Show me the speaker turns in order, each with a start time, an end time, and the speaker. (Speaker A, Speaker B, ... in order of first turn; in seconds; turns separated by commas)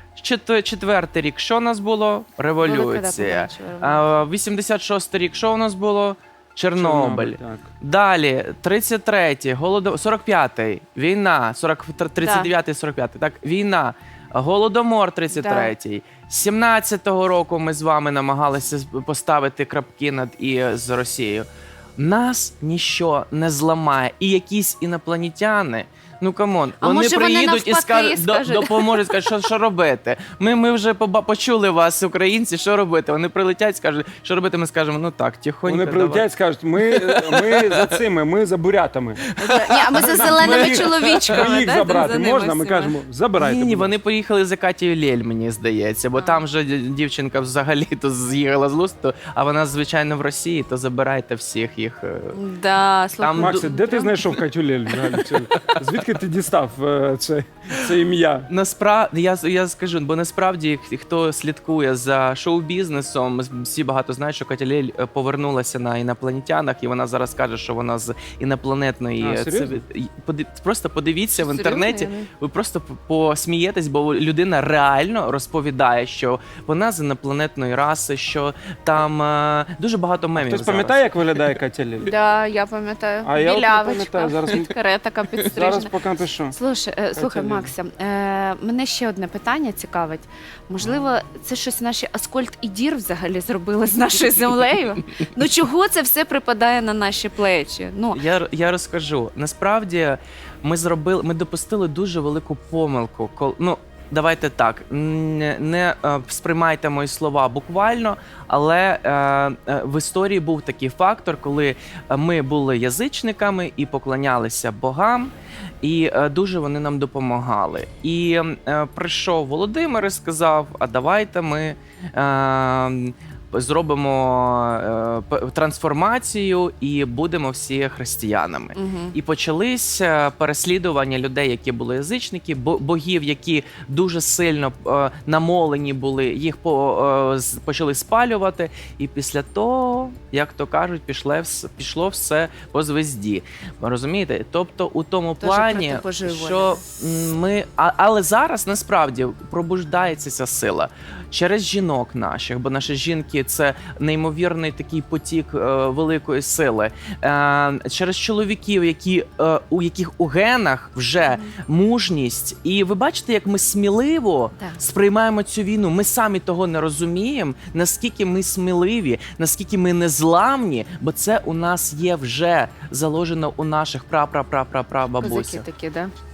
Speaker A: 0.1-38.0, Speaker B: 2.6-4.1, Speaker C: 6.7-7.7, Speaker B: 12.2-12.5, Speaker B: 15.3-15.7, Speaker B: 26.8-29.1, Speaker C: 35.6-39.3, Speaker B: 39.4-43.0, Speaker A: 39.4-41.5, Speaker C: 40.0-43.9, Speaker A: 43.4-52.4, Speaker B: 46.1-46.4, Speaker B: 52.3-54.1, Speaker A: 53.2-53.7, Speaker C: 53.4-58.5, Speaker A: 55.0-55.7, Speaker A: 58.5-81.2, Speaker C: 69.2-69.8, Speaker B: 71.3-72.3, Speaker C: 80.4-82.1, Speaker B: 82.0-85.9, Speaker C: 83.2-84.7, Speaker C: 85.4-86.5, Speaker B: 86.5-98.2, Speaker C: 87.1-87.7, Speaker A: 98.1-175.7, Speaker B: 128.7-129.2, Speaker B: 145.4-146.8, Speaker B: 161.2-161.6, Speaker B: 175.2-176.1